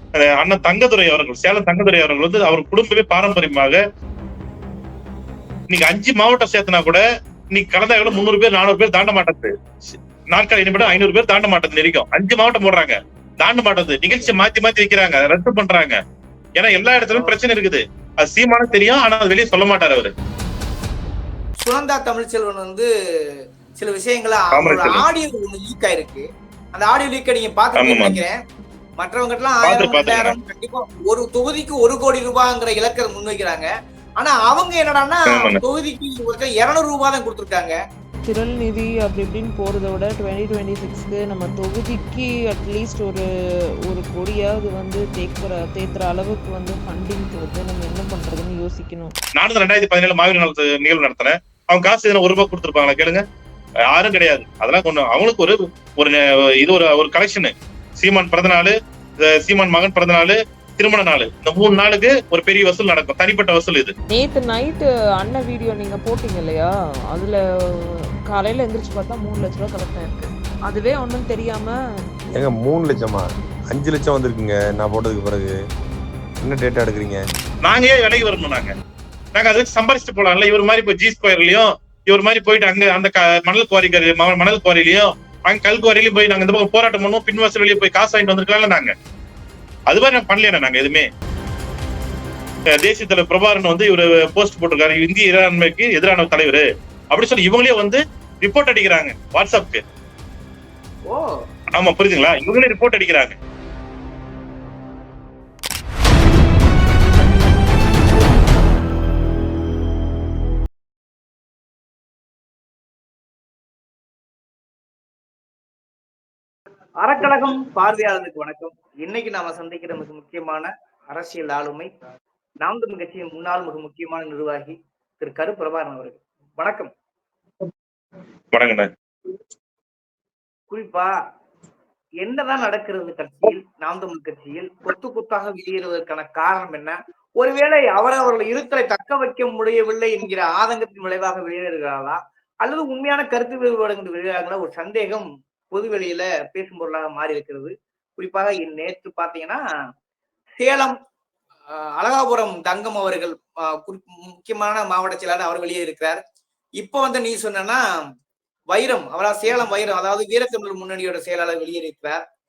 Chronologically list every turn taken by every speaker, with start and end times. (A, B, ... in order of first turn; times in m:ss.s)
0:00.2-0:03.8 A
0:05.7-0:16.0 A
0:16.6-0:20.1 A
0:21.6-0:28.4 B
0:24.5-0:25.1 A
0:27.8-0:28.2 A
0:29.0-0:37.8 B
0:29.6-0:30.4 A
0:35.3-0:35.6 A
0:38.2-0:43.2 C
0:43.9-0:49.1 C
0:49.4-0:53.2 A
0:53.9-1:03.9 A
1:04.1-1:11.8 C
1:12.4-1:15.6 D
1:16.4-1:17.2 D
1:17.6-1:18.7 A
1:19.4-1:28.9 A
1:29.9-1:31.1 A
1:32.8-1:39.8 A
1:41.1-1:41.4 B
1:41.7-1:43.4 A
1:57.0-2:01.9 B
2:02.6-2:06.9 B
2:08.5-2:08.9 A
2:10.7-2:11.1 B
2:12.2-2:29.6 B
2:30.6-2:31.0 B
2:31.7-2:36.2 B
2:36.8-2:37.8 B
2:38.7-2:42.2 B